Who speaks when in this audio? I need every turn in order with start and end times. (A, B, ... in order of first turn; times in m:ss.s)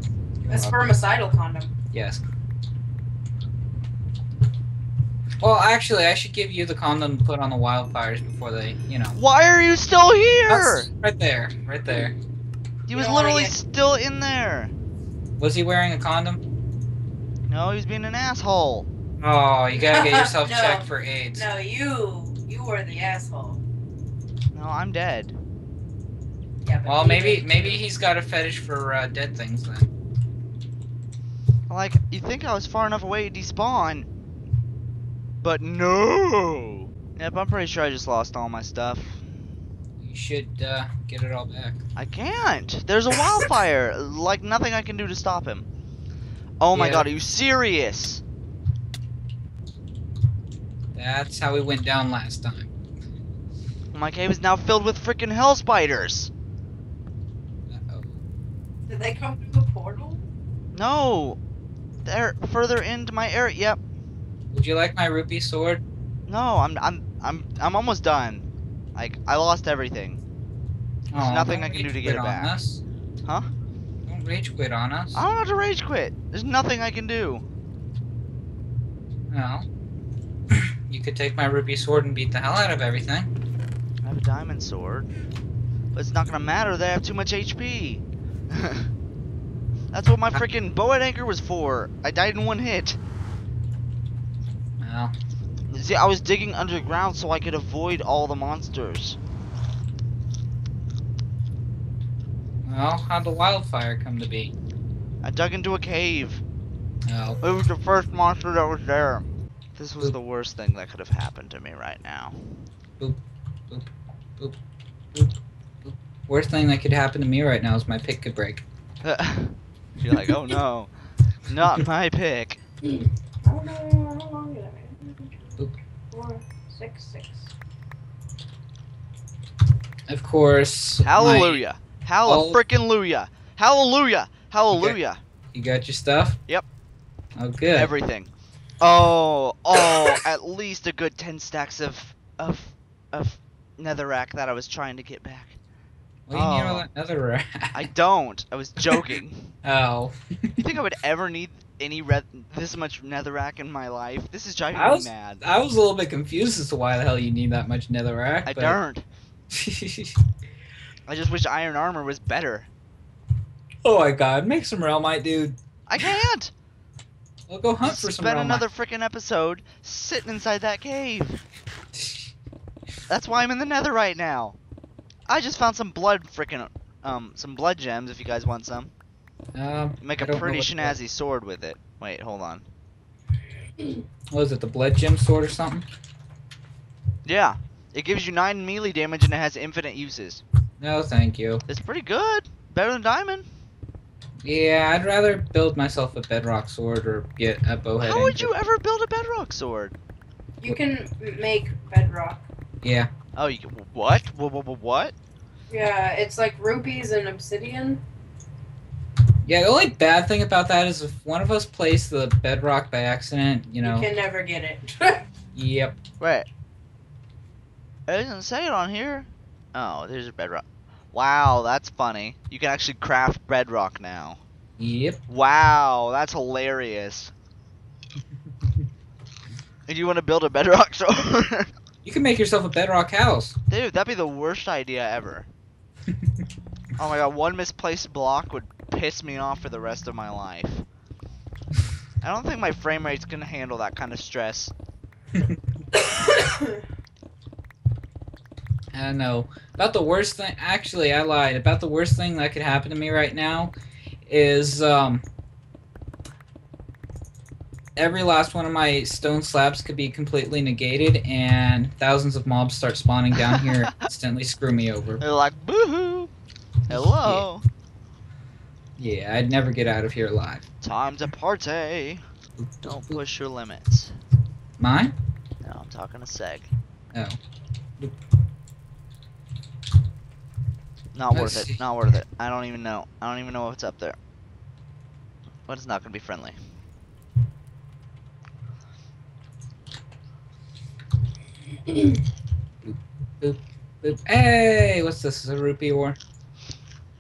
0:00.4-0:01.0 A
0:00.5-0:01.7 B
0:01.9-0:02.2 A
0:05.4-0:09.2 A
0:09.2-0:10.9 C
0:10.5-0:12.2 A
0:12.9-0:14.7 C
0:12.9-0:13.6 B
0:15.4-0:16.4 A
0:17.5-0:18.9 C
0:19.2-0:21.5 A
0:19.7-0:23.6 B
0:24.5-0:25.3 C
0:26.6-0:27.8 B
0:26.9-0:29.9 A
0:31.7-0:34.1 C
0:35.4-0:39.2 C
0:40.0-0:41.8 A
0:42.0-0:45.7 C
0:46.6-0:48.2 C
0:46.7-0:47.1 A
0:51.0-0:52.7 A
0:53.9-0:56.3 C
0:57.7-0:58.2 A
0:58.9-1:00.2 B
1:00.7-1:01.4 C
1:02.0-1:03.8 C
1:04.5-1:05.8 A
1:06.3-1:10.2 C
1:11.1-1:12.8 A
1:11.1-1:12.6 C
1:14.1-1:15.2 A
1:15.1-1:17.4 C
1:19.3-1:19.6 A
1:20.5-1:23.3 A
1:24.0-1:25.1 C
1:26.0-1:28.9 C
1:29.9-1:33.0 C
1:34.8-1:35.1 A
1:35.7-1:39.2 C
1:42.7-1:44.5 A
1:45.2-1:46.4 C
1:47.1-1:47.4 A
1:47.4-1:52.4 C
1:53.0-1:53.9 A
1:55.8-1:58.6 A
1:59.0-2:00.9 C
2:01.5-2:02.6 C
2:02.8-2:07.5 B
2:10.1-2:11.6 A
2:11.0-2:15.2 C
2:12.2-2:12.6 A
2:14.7-2:15.0 A
2:15.5-2:16.4 A
2:17.4-2:17.9 A
2:17.7-2:25.6 C
2:26.3-2:27.9 A
2:26.3-2:26.9 C
2:27.7-2:29.5 C
2:28.9-2:30.7 A
2:30.6-2:35.4 C
2:34.7-2:38.8 A
2:38.5-2:39.0 C
2:39.5-2:40.2 A
2:41.1-2:42.7 C
2:43.8-2:46.1 A
2:45.9-2:46.5 C
2:47.5-2:48.6 A
2:47.8-2:51.4 C
2:52.0-2:52.3 A
2:53.1-2:54.6 C
2:55.3-2:58.9 C
2:59.6-3:01.0 A
3:00.0-3:02.7 C
3:04.3-3:05.8 A
3:07.3-3:10.4 C
3:10.8-3:11.6 A
3:11.7-3:13.4 C
3:14.4-3:18.5 A
3:18.0-3:20.0 C
3:20.6-3:22.4 B
3:22.8-3:23.1 A
3:23.4-3:25.1 C
3:25.7-3:28.0 B
3:29.5-3:34.1 A
3:33.8-3:35.2 B
3:35.6-3:36.0 A
3:36.2-3:36.5 C
3:38.1-3:44.4 C
3:44.8-3:45.2 A
3:45.3-3:47.3 C
3:49.9-3:51.7 C
3:52.0-3:53.6 A
3:53.7-3:55.5 C
3:57.0-4:00.8 C
4:02.2-4:04.7 C
4:06.3-4:06.8 B
4:08.9-4:13.7 A
4:14.3-4:15.2 A
4:18.0-4:25.2 A
4:23.4-4:23.9 C
4:25.2-4:26.3 C
4:26.9-4:27.5 A
4:26.9-4:27.6 C
4:29.0-4:30.7 A
4:30.8-4:32.2 C
4:32.6-4:33.2 A
4:32.8-4:34.1 C
4:34.8-4:35.1 A
4:35.6-4:36.7 C
4:41.1-4:44.2 C
4:41.3-4:41.8 A
4:45.7-4:46.6 C
4:52.8-4:56.2 A